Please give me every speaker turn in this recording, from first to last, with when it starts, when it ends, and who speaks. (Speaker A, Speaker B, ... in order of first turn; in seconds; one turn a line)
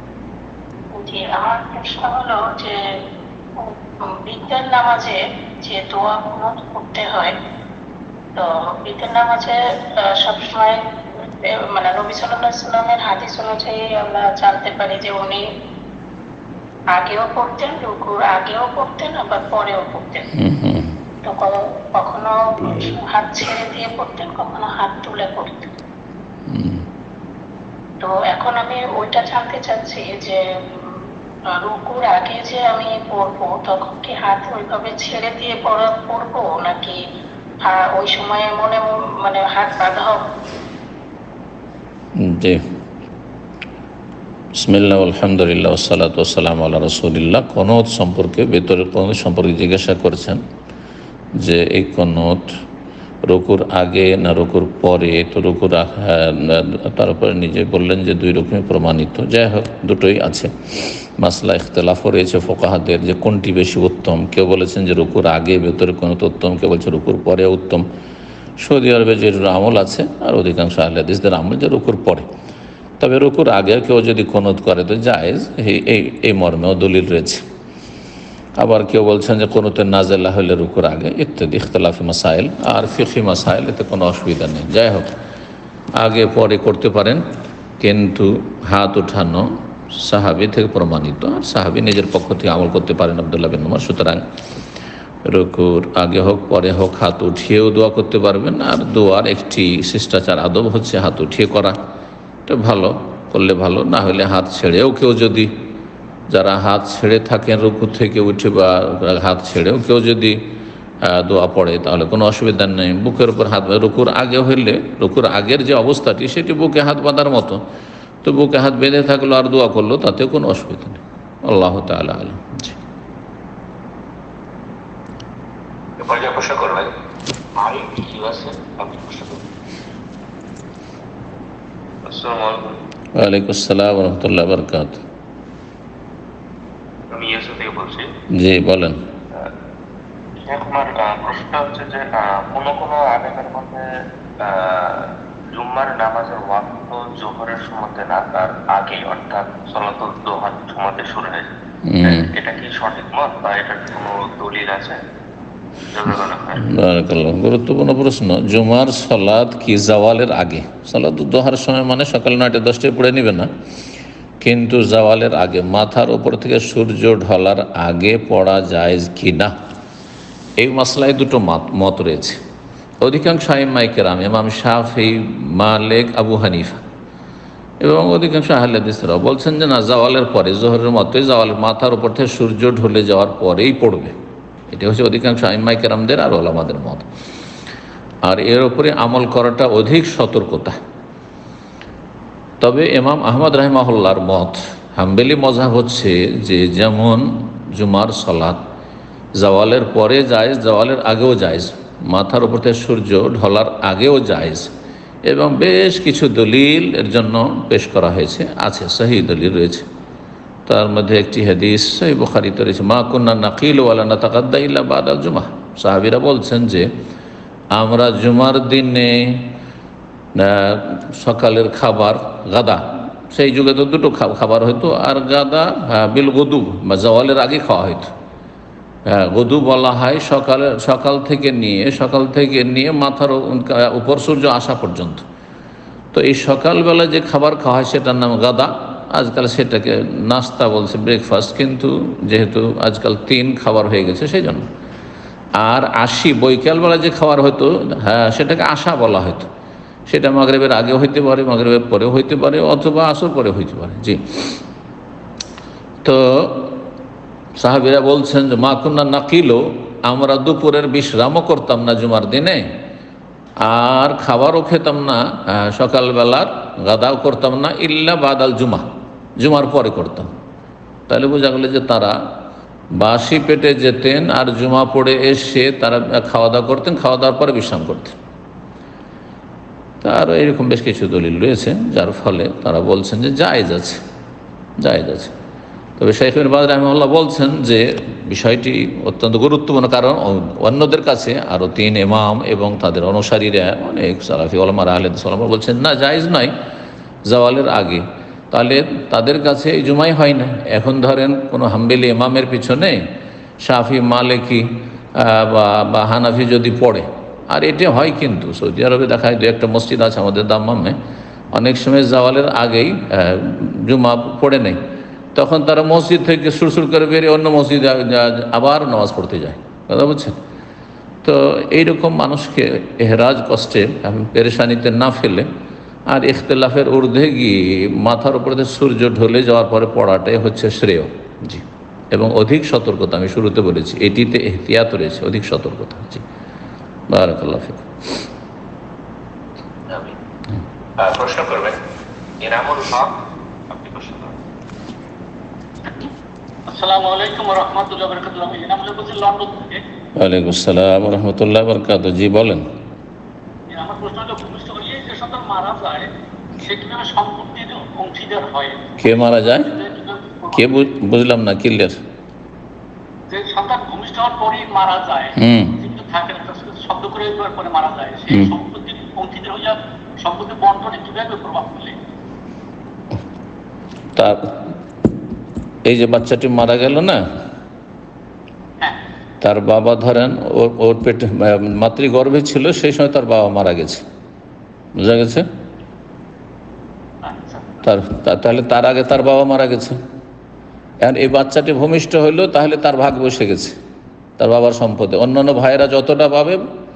Speaker A: 0.9-2.7
Speaker A: 3.6-7.3
Speaker A: 8.3-15.4
Speaker A: 16.9-20.2
Speaker B: 20.3-20.9
Speaker A: 21.2-25.7
Speaker B: 26.5-26.8
Speaker A: 28.0-30.4
Speaker A: 31.5-37.0
Speaker A: 37.6-40.2
Speaker B: 42.1-42.6
Speaker B: 44.6-50.4
Speaker B: 51.4-52.5
Speaker B: 53.2-67.8
Speaker B: 68.6-72.3
Speaker B: 73.0-77.4
Speaker B: 78.6-85.1
Speaker B: 86.0-87.2
Speaker B: 87.8-94.2
Speaker B: 95.2-101.8
Speaker B: 102.5-105.5
Speaker B: 106.3-110.4
Speaker B: 111.0-117.6
Speaker B: 118.2-122.8
Speaker C: 126.0-126.9
Speaker C: 127.5-129.4
Speaker D: 132.1-132.8
Speaker B: 133.2-135.0
Speaker D: 137.1-138.1
Speaker B: 138.3-139.0
Speaker D: 140.4-143.8
Speaker D: 144.4-151.5
Speaker B: 151.9-152.3
Speaker D: 152.0-155.0
Speaker D: 155.9-156.6
Speaker B: 156.6-163.5
Speaker B: 164.4-169.5
Speaker B: 170.6-172.4
Speaker B: 173.0-176.8
Speaker B: 177.8-184.1
Speaker B: 184.7-187.1
Speaker B: 188.2-190.8
Speaker B: 192.6-198.6
Speaker B: 199.3-204.7
Speaker B: 205.2-209.8
Speaker B: 210.7-216.9
Speaker B: 217.7-219.5
Speaker B: 220.3-228.1
Speaker B: 229.1-235.2
Speaker B: 236.1-244.7
Speaker B: 245.6-249.5
Speaker B: 250.1-254.6
Speaker B: 256.0-256.8
Speaker B: 257.6-262.8
Speaker B: 263.6-268.9
Speaker B: 269.4-270.3
Speaker B: 271.1-272.2
Speaker B: 272.9-278.1
Speaker B: 280.0-284.0
Speaker B: 284.8-285.3
Speaker B: 286.0-296.5
Speaker B: 297.2-303.0
Speaker B: 303.6-311.0
Speaker B: 311.5-314.8
Speaker B: 315.3-320.4
Speaker B: 321.2-325.5
Speaker B: 326.1-336.2
Speaker B: 337.1-337.9
Speaker C: 339.9-340.1
Speaker C: 341.0-341.8
Speaker C: 342.4-343.1
Speaker C: 343.7-344.3
Speaker E: 346.7-349.8
Speaker B: 350.1-352.6
Speaker E: 353.7-360.7
Speaker B: 359.0-359.7
Speaker B: 360.5-362.0
Speaker E: 363.3-371.9
Speaker B: 365.4-365.8
Speaker B: 374.1-374.6
Speaker B: 375.9-377.2
Speaker B: 379.4-384.0
Speaker B: 384.9-385.4
Speaker E: 387.2-387.7
Speaker B: 387.8-390.0
Speaker B: 391.0-393.8
Speaker B: 394.4-396.6